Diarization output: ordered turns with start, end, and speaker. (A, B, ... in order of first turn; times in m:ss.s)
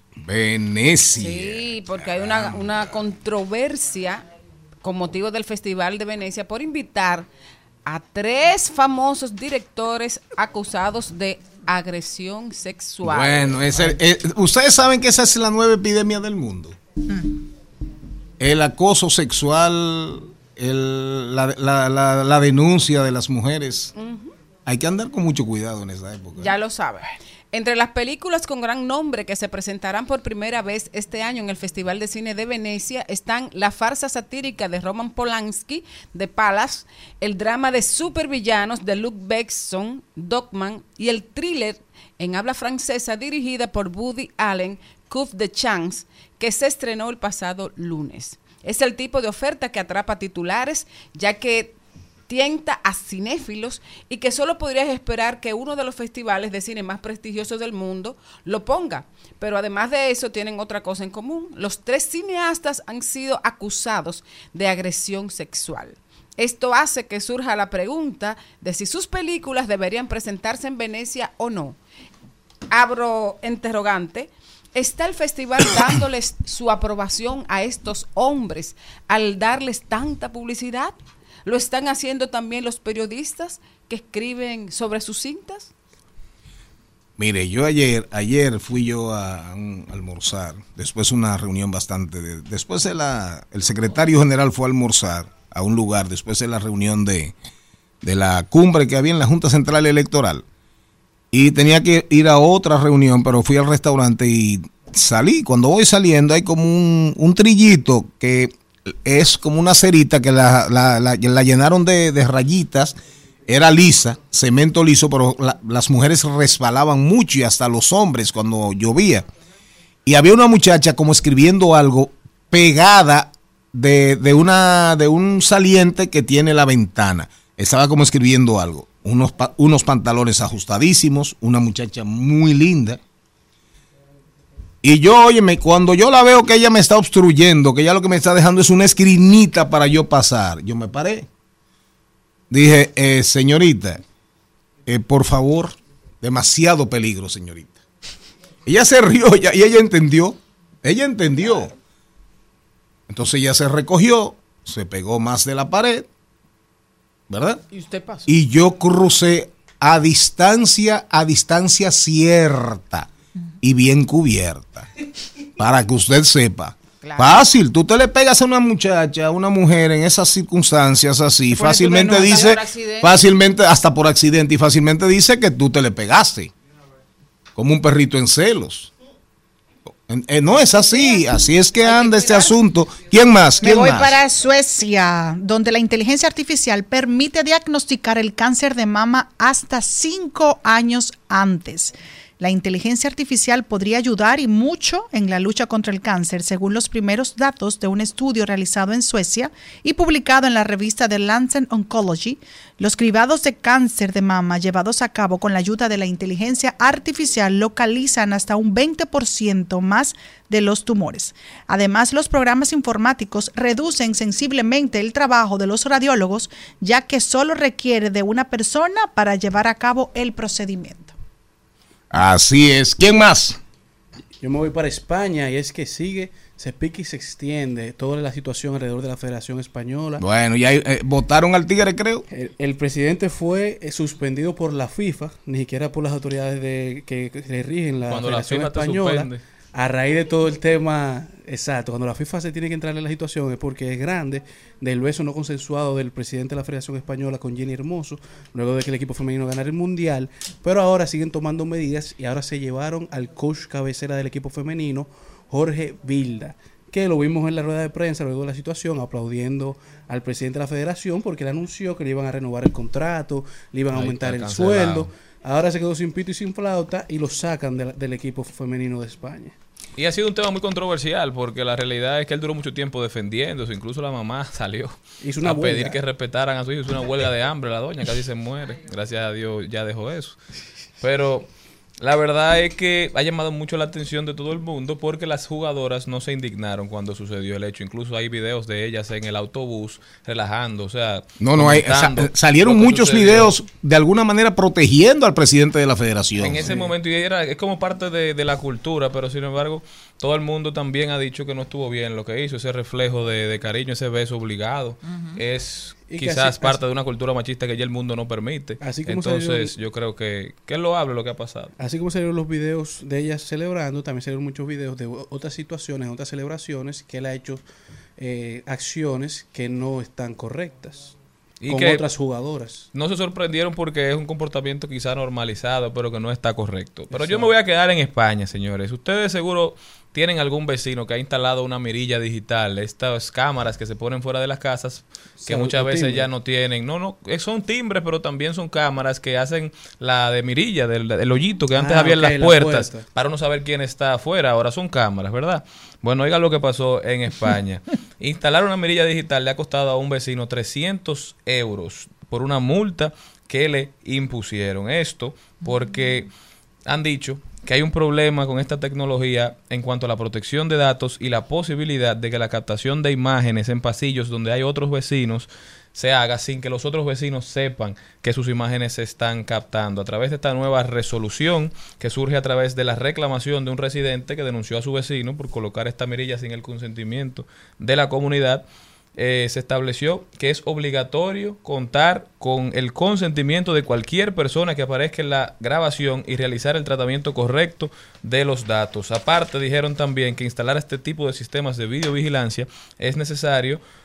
0:00.2-0:02.6 A
0:01.2-0:04.2 B
0:04.8-0:07.3 B
0:07.9-0:13.9 B
0:13.0-0:16.8 A
0:18.4-0:23.9 A
0:24.0-0:24.3 B
0:24.7-0:26.5 A
0:26.4-0:51.8 B
0:52.3-1:11.8 B
1:12.7-1:21.0 B
1:21.5-1:25.7 B
1:27.2-1:37.3 A
1:38.0-1:40.4 A
1:41.3-1:59.3 A
2:00.1-2:13.0 A
2:14.8-2:21.3 A
2:22.5-2:24.0 A
2:24.9-2:27.8 A
2:28.7-2:31.7 A
2:33.1-2:36.1 A
2:37.3-2:37.6 A
2:37.7-2:38.3 B
2:38.3-2:43.1 A
2:43.6-2:44.9 A
2:45.6-2:56.5 A
2:47.0-2:47.5 B
2:51.5-2:53.3 B
2:57.6-2:58.9 A
3:00.1-3:04.2 A
3:01.8-3:02.5 B
3:03.6-3:41.1 C
3:42.1-3:43.6 A
3:44.4-3:50.2 D
3:50.2-3:52.3 A
3:52.3-4:29.5 D
3:58.1-3:59.4 E
4:23.9-4:25.1 E
4:30.0-4:40.4 E
4:35.2-4:36.0 D
4:41.0-4:41.5 E
4:42.0-4:53.6 E
4:51.4-4:56.7 A
4:56.4-5:11.7 E
4:56.6-4:56.9 D
5:06.1-5:06.8 D
5:08.8-5:09.7 D
5:11.8-5:17.6 D
5:18.2-5:21.2 D
5:21.6-5:22.0 E
5:21.7-5:22.9 D
5:22.9-5:56.3 E
5:27.1-5:27.5 D
5:35.4-5:36.3 D
5:41.8-5:43.1 D
5:56.9-6:18.6 E
6:19.2-6:33.8 E